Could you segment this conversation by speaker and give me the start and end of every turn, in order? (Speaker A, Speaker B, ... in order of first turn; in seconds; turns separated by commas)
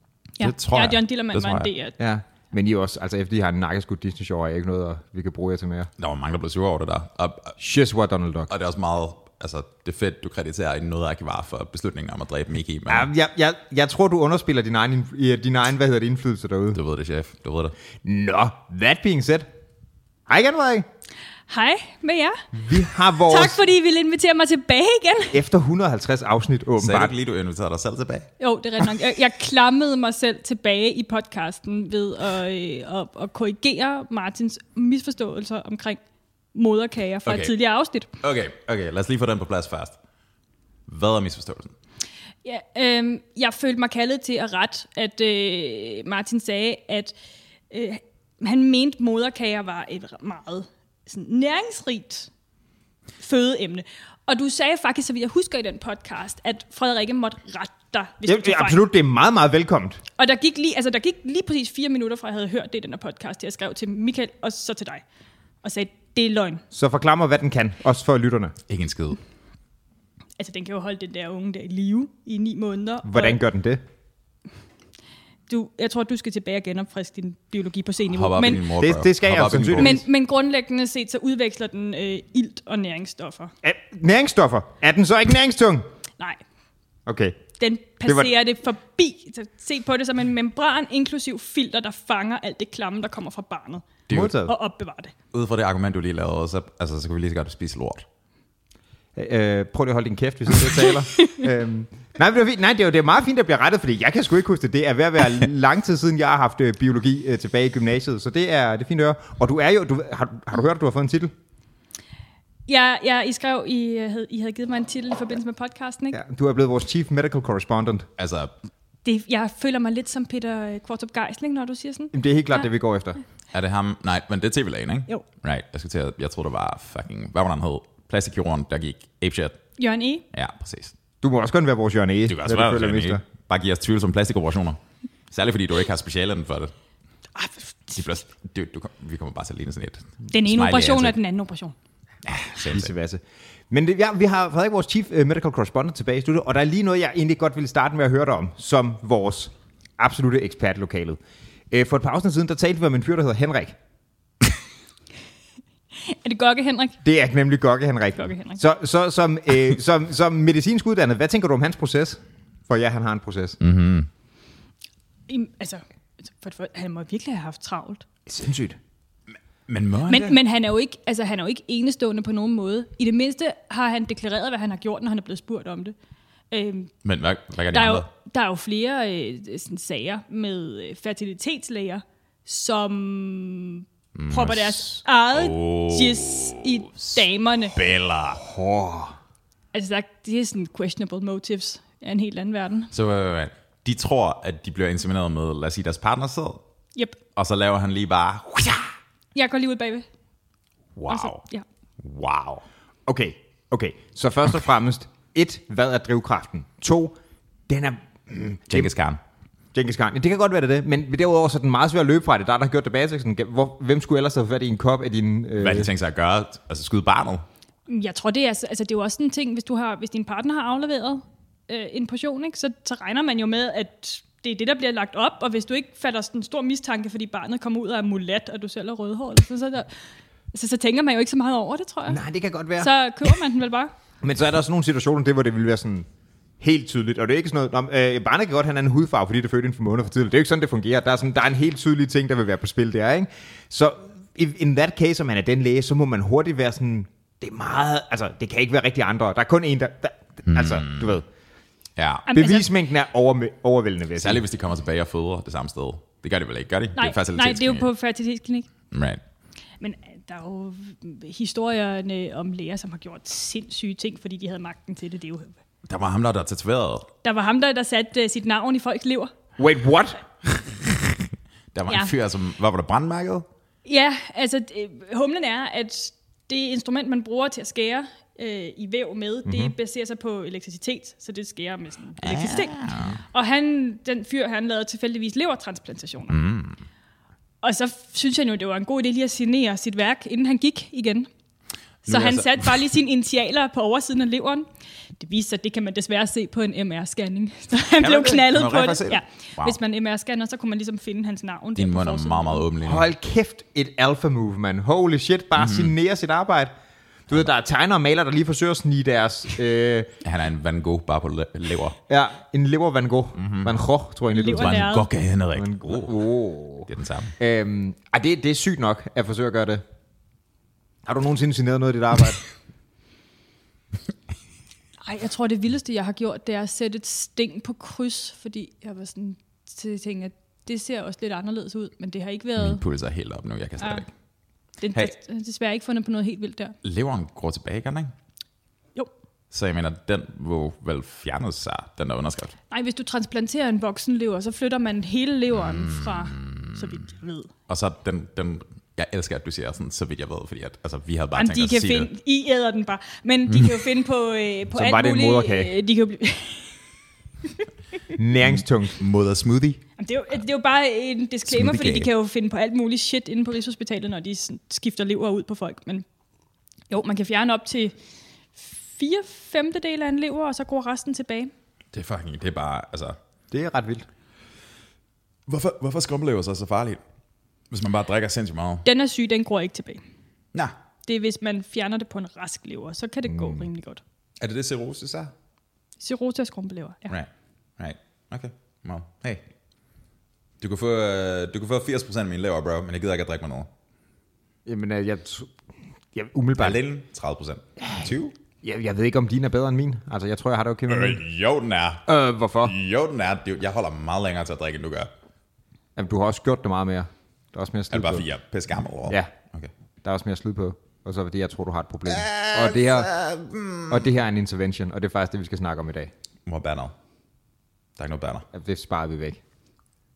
Speaker A: 0.4-2.0, Speaker B: 0.4-1.7, Speaker C: 2.0-5.9, Speaker B: 6.0-7.6, Speaker C: 7.6-8.5, Speaker B: 8.5-13.1, Speaker C: 12.9-16.8, Speaker B: 16.7-17.7, Speaker C: 18.0-19.5, Speaker C: 20.3-20.9, Speaker A: 21.5-22.4, Speaker C: 22.5-23.6, Speaker A: 23.2-25.4, Speaker C: 25.3-27.1, Speaker B: 26.8-28.3, Speaker A: 28.4-36.0, Speaker A: 36.5-38.1, Speaker B: 37.3-37.5, Speaker B: 38.2-40.0, Speaker B: 40.9-41.7, Speaker A: 42.5-47.1, Speaker A: 47.7-52.3, Speaker A: 53.2-58.8, Speaker C: 58.3-60.0, Speaker A: 60.2-65.0, Speaker A: 65.6-66.6, Speaker C: 66.7-68.6, Speaker B: 68.7-69.2, Speaker A: 70.4-73.4, Speaker C: 73.0-73.8, Speaker A: 75.5-78.7, Speaker B: 78.1-80.0, Speaker C: 78.7-80.0, Speaker A: 79.8-83.5, Speaker C: 83.6-85.8, Speaker C: 87.1-87.4, Speaker A: 87.6-95.1, Speaker C: 88.0-88.3, Speaker C: 94.1-94.5, Speaker B: 95.3-98.1, Speaker C: 99.2-111.3, Speaker A: 112.7-116.2, Speaker C: 116.1-118.1, Speaker B: 118.2-118.5, Speaker A: 119.0-122.7, Speaker C: 122.1-123.2, Speaker B: 123.5-129.6, Speaker A: 129.8-130.2, Speaker B: 130.3-130.9, Speaker C: 131.2-133.2, Speaker B: 132.3-134.8, Speaker B: 135.3-136.7, Speaker A: 137.4-138.0, Speaker B: 137.9-141.2, Speaker A: 140.3-141.7, Speaker B: 142.2-142.9, Speaker C: 142.7-151.2, Speaker C: 151.7-153.8, Speaker A: 156.0-157.0, Speaker C: 157.0-163.6, Speaker A: 158.2-158.6, Speaker B: 163.6-164.1, Speaker A: 165.3-168.1, Speaker C: 168.3-168.8, Speaker B: 169.3-170.4, Speaker A: 170.1-175.9, Speaker A: 176.5-176.9, Speaker B: 177.0-178.1, Speaker A: 177.7-187.8, Speaker B: 184.2-187.2, Speaker B: 187.7-188.4, Speaker C: 188.4-189.2, Speaker A: 189.7-192.9, Speaker B: 192.9-196.6, Speaker B: 197.3-198.8, Speaker A: 199.3-200.1, Speaker B: 201.0-201.4, Speaker A: 201.1-201.7, Speaker B: 202.0-202.6, Speaker C: 203.1-207.2, Speaker C: 207.7-208.9, Speaker B: 208.7-209.2, Speaker C: 209.7-215.9, Speaker B: 215.6-217.4, Speaker A: 217.9-229.9, Speaker A: 230.5-232.2, Speaker C: 232.1-233.3, Speaker A: 232.8-233.9, Speaker C: 234.2-236.1, Speaker C: 236.6-251.3, Speaker B: 250.5-251.2, Speaker B: 252.0-252.3, Speaker A: 252.3-252.7, Speaker C: 252.3-254.4, Speaker B: 254.2-257.9, Speaker A: 257.0-258.7, Speaker B: 258.9-259.2, Speaker A: 259.8-265.6, Speaker B: 265.9-267.1, Speaker A: 267.2-269.3, Speaker C: 269.6-270.2, Speaker B: 271.7-273.5, Speaker A: 273.9-286.4, Speaker C: 279.5-279.7, Speaker B: 282.2-283.2, Speaker B: 286.3-286.8, Speaker A: 287.6-291.3, Speaker B: 292.1-292.9, Speaker A: 292.1-302.6, Speaker B: 298.0-299.8, Speaker B: 301.8-303.1, Speaker C: 302.8-306.7, Speaker B: 305.6-305.9, Speaker C: 307.3-310.1, Speaker B: 310.2-312.0, Speaker C: 312.1-314.9, Speaker B: 313.4-313.7, Speaker A: 314.3-315.1, Speaker B: 314.5-316.2, Speaker C: 315.6-316.9, Speaker B: 316.9-317.4, Speaker C: 317.4-319.8, Speaker C: 321.1-322.4, Speaker A: 325.0-332.8, Speaker B: 332.6-334.1, Speaker A: 334.8-336.8, Speaker B: 336.8-338.1, Speaker B: 339.5-342.6, Speaker A: 342.7-347.5, Speaker B: 345.6-347.0, Speaker B: 347.7-352.1, Speaker A: 351.4-356.8, Speaker B: 353.5-353.9, Speaker C: 354.8-355.7, Speaker C: 358.1-359.0, Speaker B: 358.4-359.9, Speaker A: 360.0-366.1, Speaker B: 361.5-362.1, Speaker A: 366.9-367.9, Speaker A: 368.6-371.5, Speaker B: 371.9-373.2, Speaker C: 373.5-374.1, Speaker B: 375.5-377.0, Speaker B: 377.7-378.9, Speaker A: 378.9-380.0, Speaker A: 381.1-384.0, Speaker C: 383.3-383.7, Speaker B: 384.4-385.3, Speaker A: 386.0-387.1, Speaker B: 387.1-389.4, Speaker B: 390.6-393.7, Speaker C: 394.7-395.5, Speaker C: 396.1-396.8, Speaker B: 396.6-398.3, Speaker C: 397.8-401.2, Speaker B: 400.9-402.1, Speaker C: 402.1-402.8, Speaker B: 402.6-405.1, Speaker C: 406.0-408.3, Speaker B: 407.9-409.7, Speaker C: 410.0-413.1, Speaker B: 412.1-414.1, Speaker C: 413.9-416.1, Speaker B: 416.5-416.9, Speaker B: 418.0-418.5, Speaker C: 418.5-419.4